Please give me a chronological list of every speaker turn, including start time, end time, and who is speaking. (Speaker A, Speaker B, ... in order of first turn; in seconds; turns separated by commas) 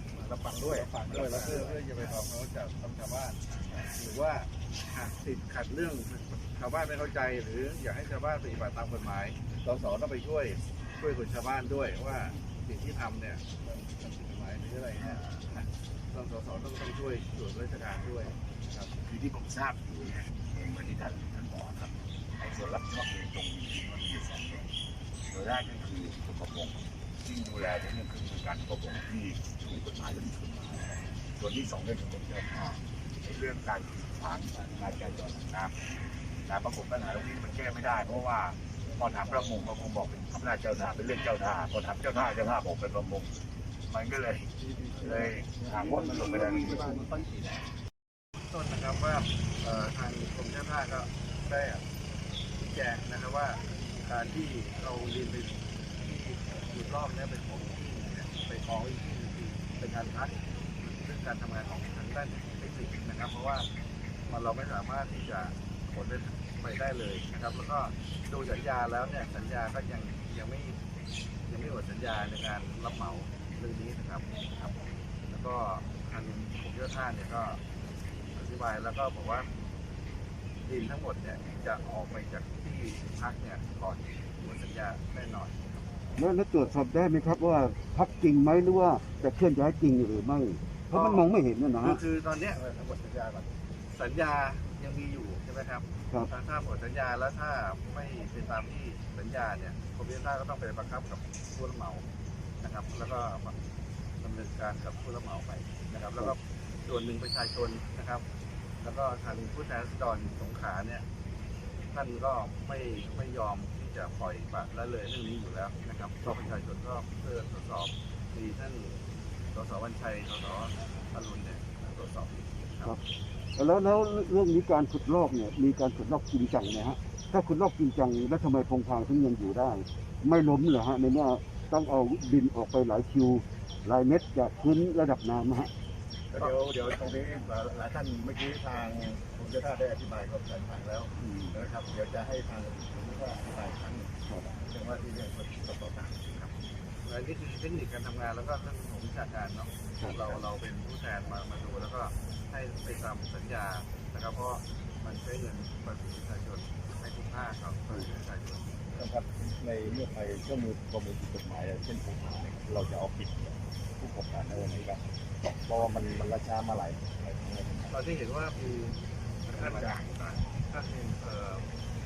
Speaker A: 0.2-1.7, Speaker B: 0.5-18.9, Speaker C: 0.9-1.8, Speaker C: 3.5-3.9, Speaker C: 15.0-15.4, Speaker C: 19.0-24.7, Speaker C: 25.2-35.9, Speaker C: 36.4-44.5, Speaker A: 44.8-45.1, Speaker C: 45.0-47.0, Speaker A: 46.4-47.0, Speaker B: 48.5-51.8, Speaker B: 52.6-63.7, Speaker B: 64.3-70.8, Speaker B: 71.5-77.6, Speaker B: 78.3-79.5, Speaker B: 80.7-85.8, Speaker D: 86.2-92.0, Speaker B: 90.9-92.6, Speaker A: 92.5-93.5, Speaker B: 93.9-102.0, Speaker B: 102.6-103.6, Speaker B: 104.2-108.2, Speaker B: 108.8-111.0, Speaker B: 111.9-119.0, Speaker D: 116.2-116.5, Speaker B: 119.5-123.0, Speaker D: 123.5-135.7, Speaker A: 136.3-146.5, Speaker D: 141.2-141.6, Speaker D: 144.2-144.5, Speaker B: 147.0-158.8, Speaker D: 150.0-150.4, Speaker A: 158.9-167.9, Speaker B: 167.9-171.7, Speaker C: 169.5-170.1